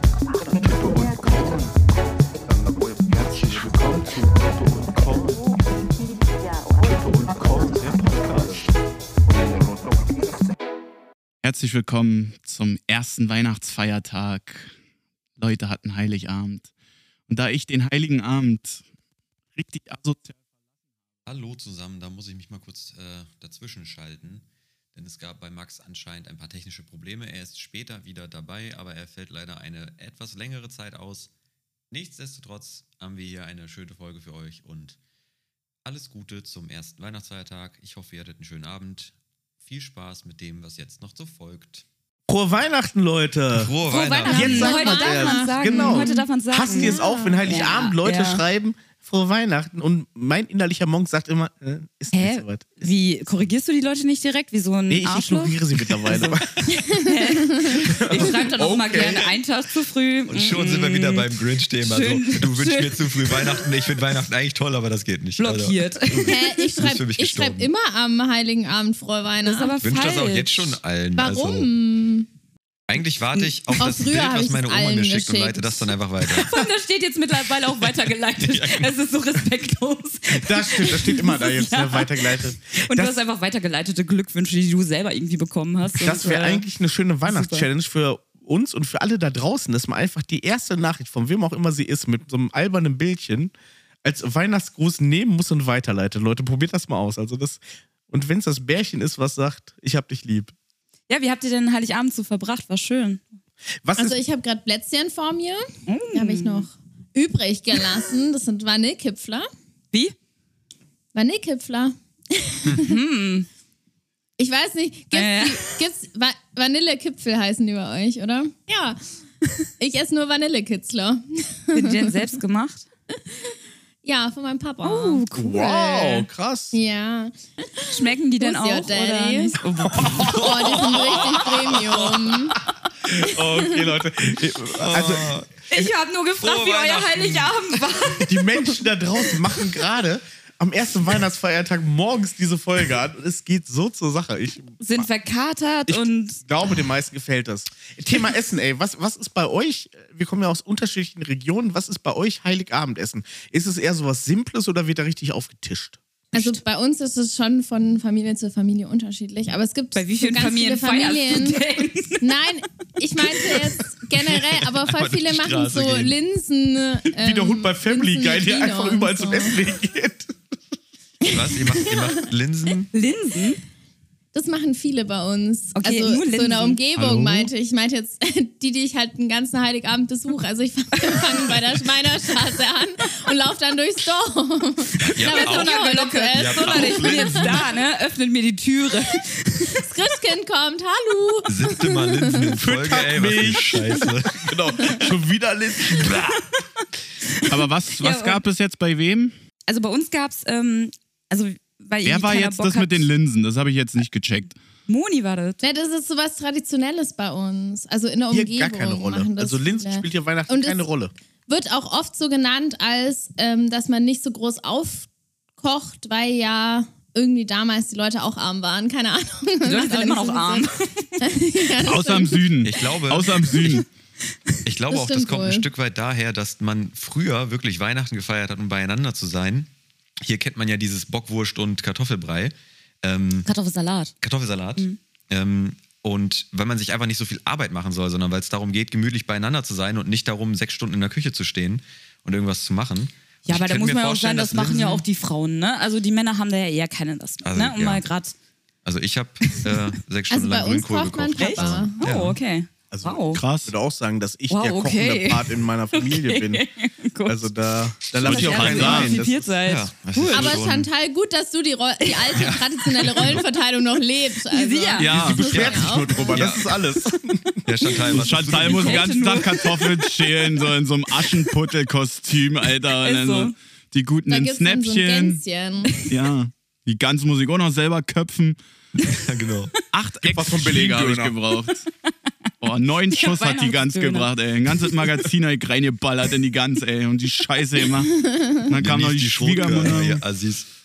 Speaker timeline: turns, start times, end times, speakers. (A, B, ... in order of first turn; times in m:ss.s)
0:00.6-0:01.7 A
0:03.1-0:05.4 A
0:06.9-0:08.7 A
0:11.4-0:14.7 A
0:15.4-0:16.7 A
0:17.3-0:18.8 A
0:19.6-0:20.4 A
0:21.3-0:31.3 B
0:31.9-0:35.0 B
0:35.8-0:39.1 B
0:39.6-0:41.8 B
0:42.3-0:43.7 C
0:43.5-0:44.8 B
0:43.9-0:48.4 D
0:44.2-0:52.7 C
0:44.3-0:47.6 E
0:52.1-1:01.3 D
0:54.9-0:56.6 C
0:56.7-0:57.8 E
0:57.8-0:59.4 C
1:00.3-1:07.7 B
1:01.8-1:03.9 D
1:05.4-1:06.7 D
1:06.3-1:09.7 E
1:09.5-1:10.8 D
1:09.8-1:11.7 B
1:11.2-1:12.3 E
1:12.9-1:16.6 B
1:13.8-1:15.9 E
1:16.4-1:26.6 D
1:18.4-1:18.9 B
1:20.3-1:23.2 C
1:26.0-1:33.5 C
1:27.2-1:27.7 D
1:34.0-1:40.5 C
1:41.1-1:43.2 D
1:43.8-1:44.2 C
1:44.0-1:49.5 E
1:45.9-1:46.7 D
1:51.1-1:52.9 E
1:52.8-1:53.5 D
1:54.4-1:59.0 E
1:55.1-1:55.8 D
1:59.8-2:02.2 E
2:01.7-2:02.9 D
2:04.0-2:12.6 E
2:04.8-2:06.1 D
2:05.4-2:06.8 C
2:07.9-2:11.0 D
2:10.0-2:10.3 C
2:10.0-2:11.9 B
2:13.0-2:15.4 C
2:13.2-2:13.8 E
2:14.8-2:18.2 B
2:15.7-2:18.5 D
2:18.2-2:25.1 C
2:24.8-2:26.4 D
2:25.9-2:36.0 C
2:36.3-2:41.6 E
2:40.0-2:42.3 D
2:42.2-2:49.6 E
2:44.2-2:46.2 B
2:47.2-2:50.4 C
2:51.2-2:52.1 E
2:51.3-2:52.9 B
2:52.9-2:53.6 D
2:54.3-3:07.8 E
2:55.8-2:56.8 D
2:57.0-2:57.5 A
3:01.1-3:01.4 D
3:05.0-3:05.8 B
3:05.2-3:09.9 D
3:06.3-3:07.7 B
3:09.7-3:12.5 E
3:11.5-3:14.6 B
3:12.6-3:16.4 C
3:17.2-3:18.4 D
3:17.5-3:19.3 A
3:19.7-3:23.1 D
3:22.0-3:24.6 A
3:24.9-3:25.6 D
3:25.6-3:30.8 E
3:28.3-3:31.1 C
3:31.5-3:42.5 E
3:39.6-3:41.2 D
3:41.8-3:43.9 A
3:42.6-3:43.8 B
3:44.6-3:49.7 B
3:44.9-3:45.7 E
3:50.2-3:53.5 B
3:53.5-3:54.1 D
3:54.2-4:05.0 B
4:03.5-4:08.3 D
4:07.4-4:08.0 B
4:08.8-4:12.4 B
4:09.4-4:09.8 D
4:10.3-4:12.0 E
4:11.4-4:13.4 D
4:12.9-4:16.6 C
4:13.3-4:13.7 A
4:14.5-4:17.5 D
4:17.3-4:19.2 C
4:18.1-4:20.9 B
4:18.2-4:20.6 D
4:18.5-4:19.1 A
4:20.3-4:26.5 E
4:22.1-4:23.4 D
4:22.4-4:23.4 B
4:24.5-4:25.1 D
4:25.0-4:25.6 A
4:25.0-4:27.6 C
4:25.4-4:26.7 B
4:27.7-4:29.2 B
4:28.1-4:35.4 A
4:28.2-4:30.7 D
4:31.2-4:31.5 D
4:32.8-4:33.5 D
4:34.3-4:35.9 E
4:35.9-4:36.1 D
4:36.1-4:38.6 A
4:39.1-4:39.7 B
4:39.9-4:41.8 A
4:40.2-4:41.3 C
4:42.0-4:42.3 D
4:42.6-4:50.2 A
4:43.1-4:44.3 D
4:48.2-4:48.6 E
4:48.7-4:50.7 B